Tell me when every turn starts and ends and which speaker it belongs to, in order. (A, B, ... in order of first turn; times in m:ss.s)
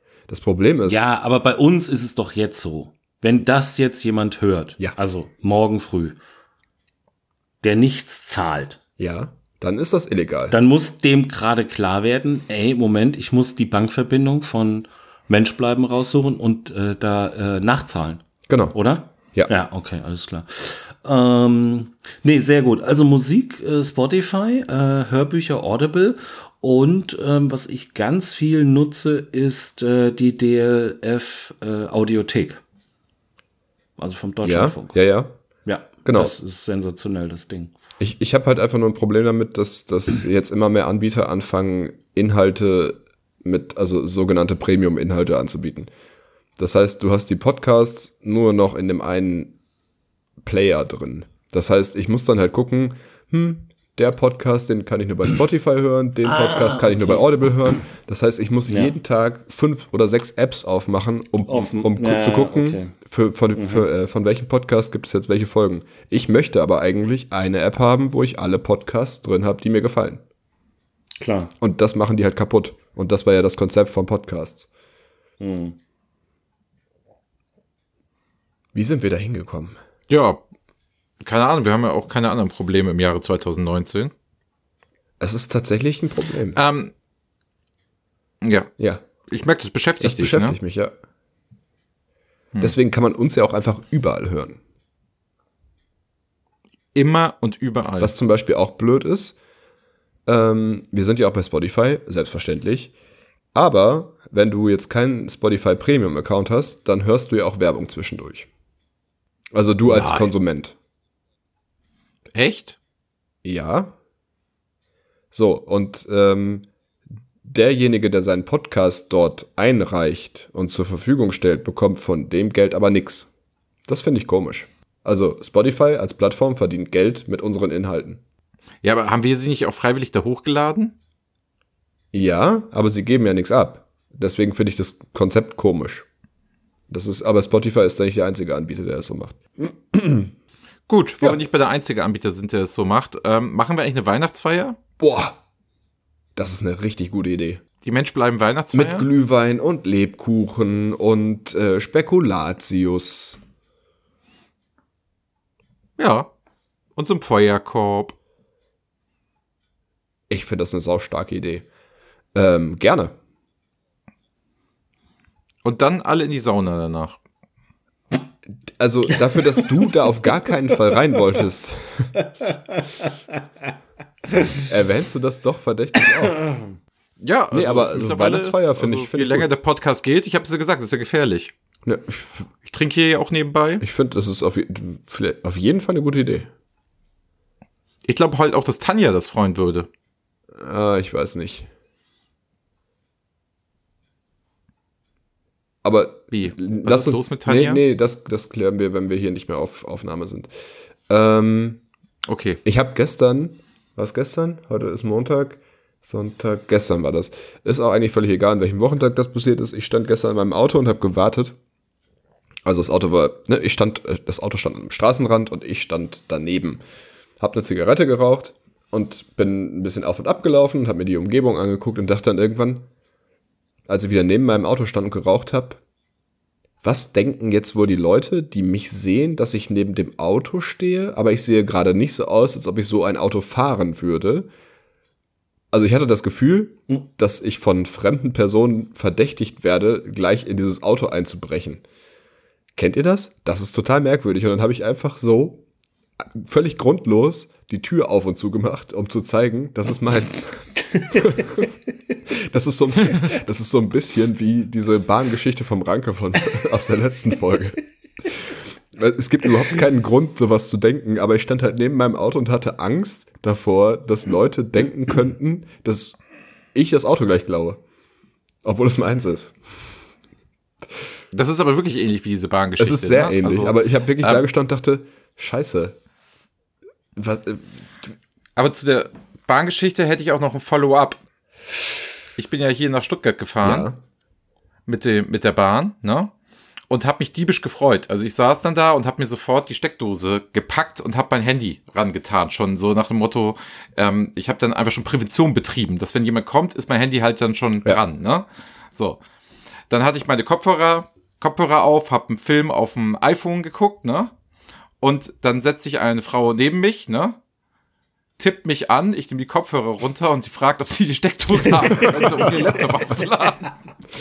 0:00.3-0:01.0 A
0:00.9-0:06.2 B
0:07.6-0:08.8 B
0:09.0-0:10.6 A
0:10.5-0:32.6 B
0:18.5-0:18.8 A
0:34.0-0:35.0 B
0:34.4-0:35.4 A
0:35.6-0:37.7 B
0:36.0-0:36.3 A
0:38.0-0:45.9 A
0:46.6-0:49.6 A
0:50.4-1:10.2 A
0:56.2-0:57.3 B
0:58.7-0:59.0 B
1:01.5-1:03.0 B
1:03.6-1:03.9 B
1:11.2-1:11.5 B
1:11.6-1:14.7 A
1:15.4-1:15.8 B
1:18.7-1:19.8 A
1:20.1-1:20.4 C
1:21.2-1:24.1 C
1:25.2-1:26.6 A
1:26.6-1:26.9 C
1:28.4-1:28.7 C
1:29.3-1:30.6 C
1:30.0-1:30.9 A
1:32.6-1:34.6 A
1:37.0-1:38.1 C
1:38.0-1:39.4 A
1:40.3-1:42.9 A
1:43.5-1:48.5 A
1:49.5-1:50.7 A
1:49.9-1:50.3 C
1:52.4-1:52.8 C
1:53.4-1:53.9 A
1:55.3-1:56.7 A
1:57.4-2:03.3 A
2:03.9-2:08.2 A
2:08.8-2:10.9 C
2:12.1-2:16.1 A
2:16.9-2:20.3 A
2:20.9-2:24.8 C
2:25.0-2:25.4 A
2:26.4-2:27.6 A
2:27.8-2:29.1 C
2:28.7-2:33.4 A
2:36.0-2:36.3 C
2:37.0-2:38.1 C
2:40.3-2:41.7 A
2:42.4-2:43.1 A
2:45.6-2:47.2 C
2:48.8-2:52.1 A
2:54.7-2:56.4 A
2:56.4-2:56.7 B
2:57.2-3:01.5 C
2:57.5-2:59.5 A
3:01.8-3:02.4 A
3:02.7-3:03.8 C
3:03.8-3:06.5 A
3:08.1-3:09.9 C
3:10.6-3:11.7 A
3:15.8-3:20.5 A
3:16.3-3:17.8 C
3:21.1-3:21.8 A
3:22.3-3:22.6 C
3:22.6-3:31.6 A
3:32.6-3:36.8 A
3:37.4-3:42.9 A
3:43.9-3:45.8 A
3:46.8-3:54.5 A
3:55.7-4:01.8 A
4:02.7-4:05.6 A
4:06.2-4:11.7 A
4:12.3-4:26.2 A
4:26.7-4:27.8 A
4:28.6-4:29.6 A
4:31.3-4:34.4 C
4:32.8-4:36.0 A
4:37.2-4:38.1 A
4:38.6-4:41.2 C
4:42.4-4:43.9 C
4:43.6-4:44.0 A
4:44.9-4:46.3 C
4:46.9-4:59.2 C
4:59.9-5:04.3 C
5:05.0-5:07.4 C
5:08.4-5:13.8 C